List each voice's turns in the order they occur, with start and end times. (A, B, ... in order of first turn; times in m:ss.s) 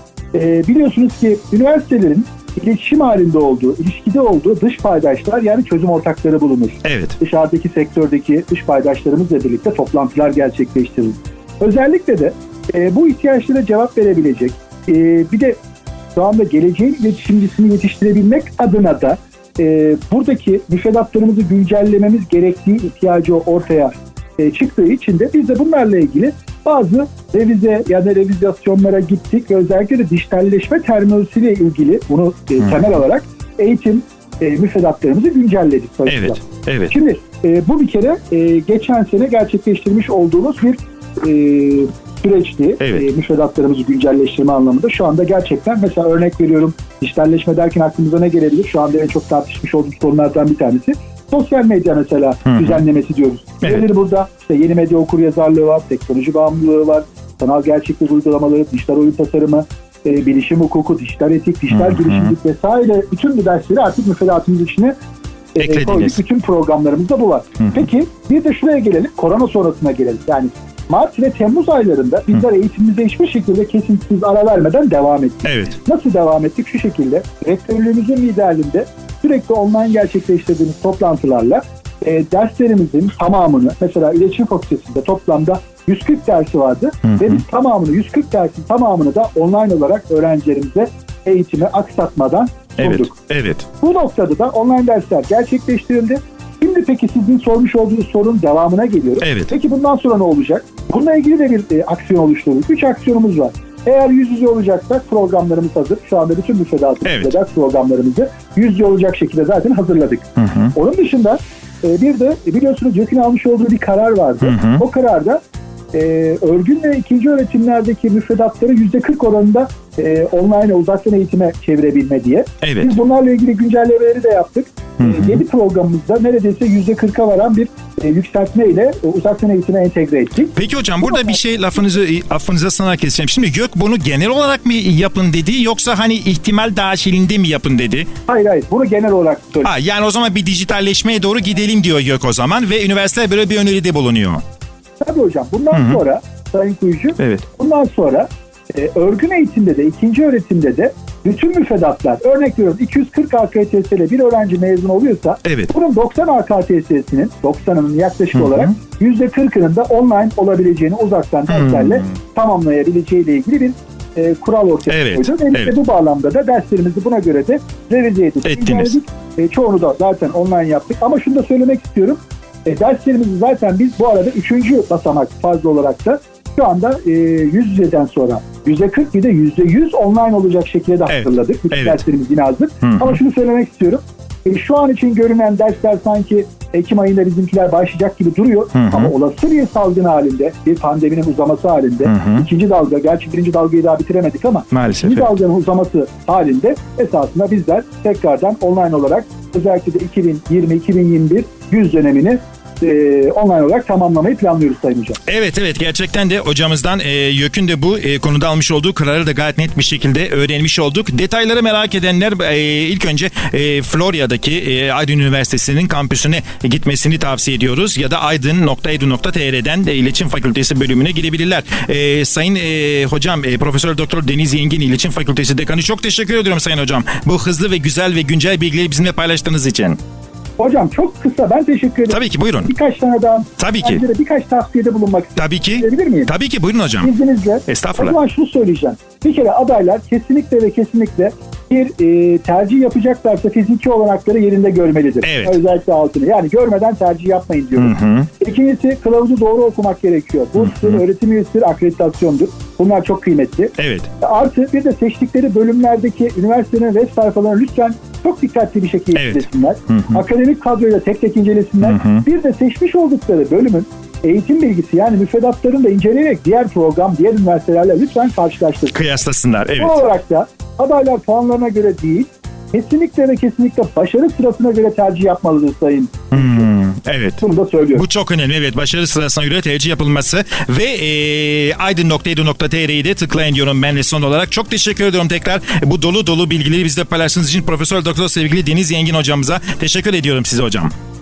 0:00.3-0:15.6 A
0:06.8-0:07.2 B
0:16.1-1:04.9 A
0:32.6-0:32.9 B
0:36.1-0:36.9 B
0:42.8-0:43.0 B
0:52.5-0:52.8 B
0:53.6-0:53.9 B
1:01.7-1:02.3 B
1:05.5-1:33.1 A
1:05.6-1:06.2 B
1:15.4-1:15.8 B
1:27.0-1:27.4 B
1:32.8-1:33.6 B
1:33.8-1:55.4 A
1:39.2-1:39.5 B
1:47.0-1:47.4 B
1:50.4-1:50.7 B
1:54.4-1:54.8 B
1:55.9-2:11.4 A
2:02.6-2:03.0 B
2:05.0-2:05.4 B
2:10.5-2:18.1 B
2:18.3-2:19.7 A
2:19.6-2:24.4 B
2:25.0-3:25.2 A
2:25.7-2:26.0 B
2:27.2-2:27.4 B
2:35.4-2:35.7 B
2:38.4-2:38.7 B
2:41.5-2:42.0 B
2:44.9-2:45.7 B
2:48.4-2:49.0 B
3:01.1-3:02.0 B
3:02.8-3:03.2 B
3:08.7-3:09.1 B
3:12.0-3:12.4 B
3:14.7-3:15.3 B
3:25.3-3:50.0 B
3:50.6-3:56.3 A
3:52.1-3:52.7 B
3:53.6-3:54.0 B
3:55.4-3:57.1 B
3:57.0-4:29.0 A
3:57.7-3:58.2 B
4:05.2-4:05.6 B
4:07.8-4:08.3 B
4:10.6-4:11.0 B
4:13.8-4:14.1 B
4:19.1-4:20.2 B
4:21.8-4:22.2 B
4:28.9-4:30.0 B
4:29.8-4:36.6 A
4:36.3-4:37.4 B
4:37.4-4:38.0 A
4:37.9-4:50.9 B